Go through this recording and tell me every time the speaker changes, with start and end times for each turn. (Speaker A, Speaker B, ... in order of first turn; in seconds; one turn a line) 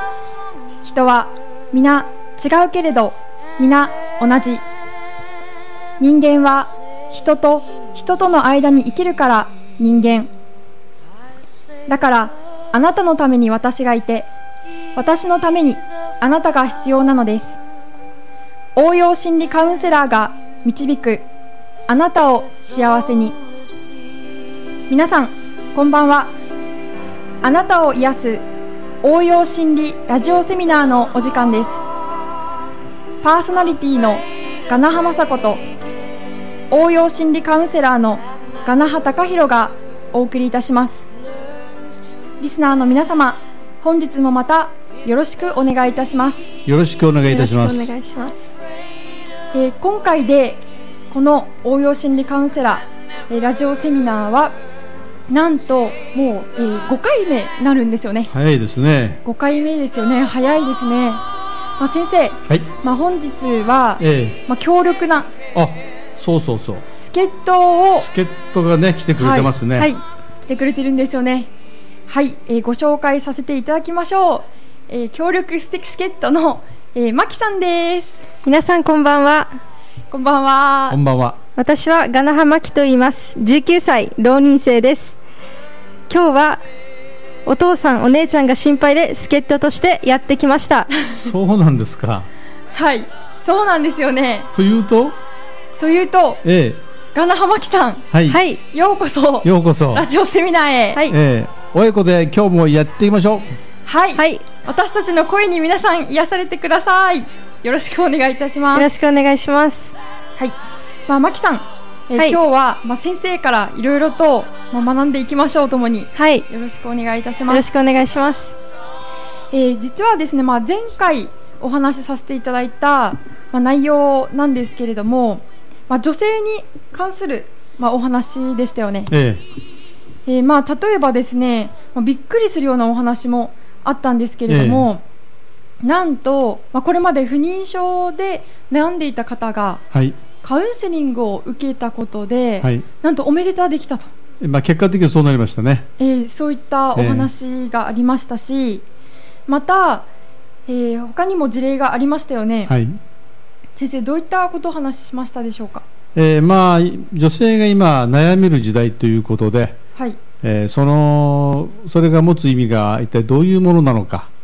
Speaker A: 0.8-4.6
Speaker A: 6.0-10.3
Speaker A: 11.9-14.3
Speaker A: 14.9-17.6
Speaker A: 18.7-21.3
Speaker A: 21.9-23.4
Speaker A: 24.9-26.3
Speaker A: 27.4-28.4
Speaker A: 29.0-31.8
Speaker A: 33.2-35.6
Speaker A: 36.7-41.1
Speaker A: 42.4-46.5
Speaker B: 46.6-47.9
Speaker C: 47.3-48.4
Speaker A: 49.5-54.5
Speaker A: 55.3-58.3
Speaker B: 58.3-59.2
Speaker A: 59.2-61.2
Speaker A: 61.8-65.3
Speaker B: 64.0-64.4
Speaker B: 65.5-66.8
Speaker A: 66.9-68.1
Speaker B: 67.9-69.9
Speaker A: 69.2-71.5
Speaker A: 72.1-78.2
Speaker C: 78.4-79.5
Speaker A: 80.1-81.0
Speaker B: 80.9-81.4
Speaker C: 81.6-85.2
Speaker C: 86.1-86.6
Speaker C: 87.5-90.9
Speaker B: 91.1-92.3
Speaker A: 92.7-94.5
Speaker B: 94.5-95.2
Speaker A: 95.8-96.4
Speaker B: 96.4-96.8
Speaker A: 97.1-98.0
Speaker B: 98.1-98.4
Speaker C: 98.3-98.6
Speaker A: 98.7-101.0
Speaker B: 99.4-100.0
Speaker B: 101.1-103.6
Speaker A: 103.8-108.9
Speaker C: 104.2-104.4
Speaker C: 108.7-110.0
Speaker A: 111.1-117.7
Speaker C: 116.2-116.5
Speaker C: 117.5-118.5
Speaker A: 119.5-129.1
Speaker B: 129.1-129.4
Speaker A: 130.2-135.0
Speaker B: 134.5-134.9
Speaker A: 135.8-139.8
Speaker B: 139.9-140.2
Speaker A: 140.4-144.1
Speaker B: 144.4-145.9
Speaker A: 146.0-148.8
Speaker B: 146.9-147.3
Speaker A: 149.5-150.1
Speaker A: 150.7-152.7
Speaker B: 152.7-153.0
Speaker A: 153.8-155.8
Speaker B: 156.1-159.8
Speaker B: 160.4-164.3